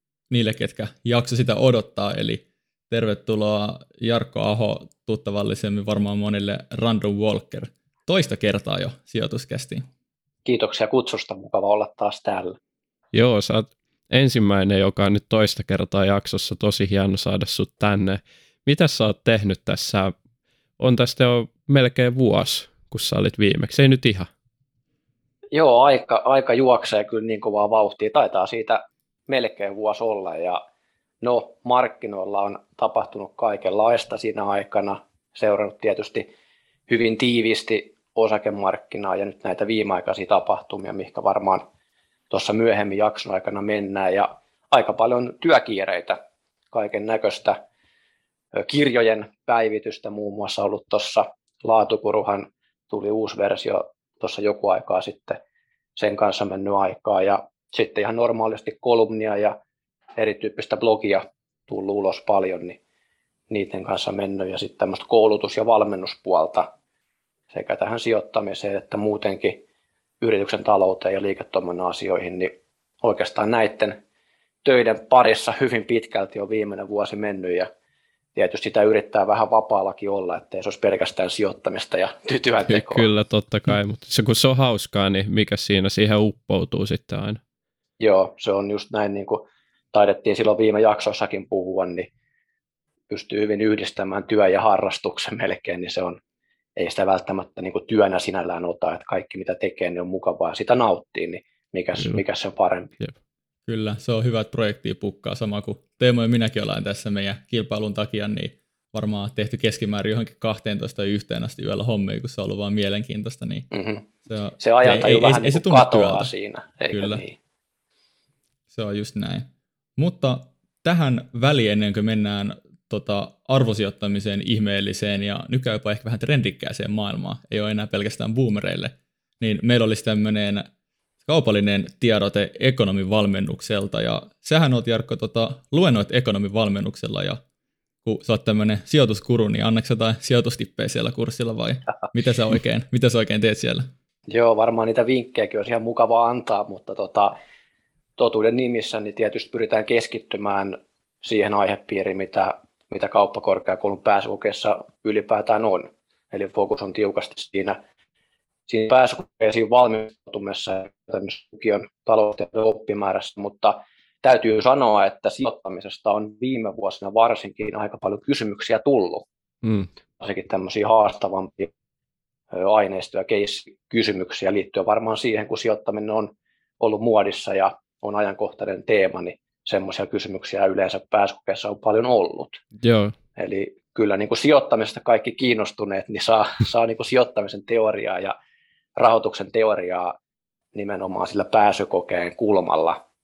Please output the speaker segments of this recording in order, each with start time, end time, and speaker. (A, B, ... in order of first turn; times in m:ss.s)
0:00.3-0:09.8 A
0:10.4-0:12.6 B
0:13.1-0:20.1 C
0:20.8-0:24.3 C
0:25.5-0:30.6 B
0:31.2-0:36.3 B
0:36.9-0:41.6 B
0:42.3-0:46.2 B
0:46.7-0:47.6 B
0:48.5-0:55.4 B
0:56.0-0:59.6 B
1:00.2-1:02.8 B
1:03.5-1:06.7 B
1:07.5-1:09.6 B
1:10.2-1:14.0 B
1:14.6-1:17.7 B
1:18.4-1:23.1 B
1:22.7-1:27.4 C
1:28.0-1:32.1 B
1:33.1-1:36.2 B
1:36.8-1:42.9 B
1:43.7-1:53.7 A
1:53.7-1:54.0 B
1:54.3-1:56.3 A
1:54.6-1:57.4 B
1:56.9-1:57.2 A
1:58.7-2:10.7 A
2:11.2-2:17.4 A
2:18.0-2:23.9 A
2:24.3-2:27.4 B
2:28.2-2:37.8 B
2:38.7-2:49.3 B
2:49.6-2:49.9 C
2:50.2-2:51.7 B
2:52.5-3:02.6 B
3:02.8-3:03.2 C
3:03.4-3:08.3 B
3:09.0-3:10.2 B
3:10.7-3:13.0 B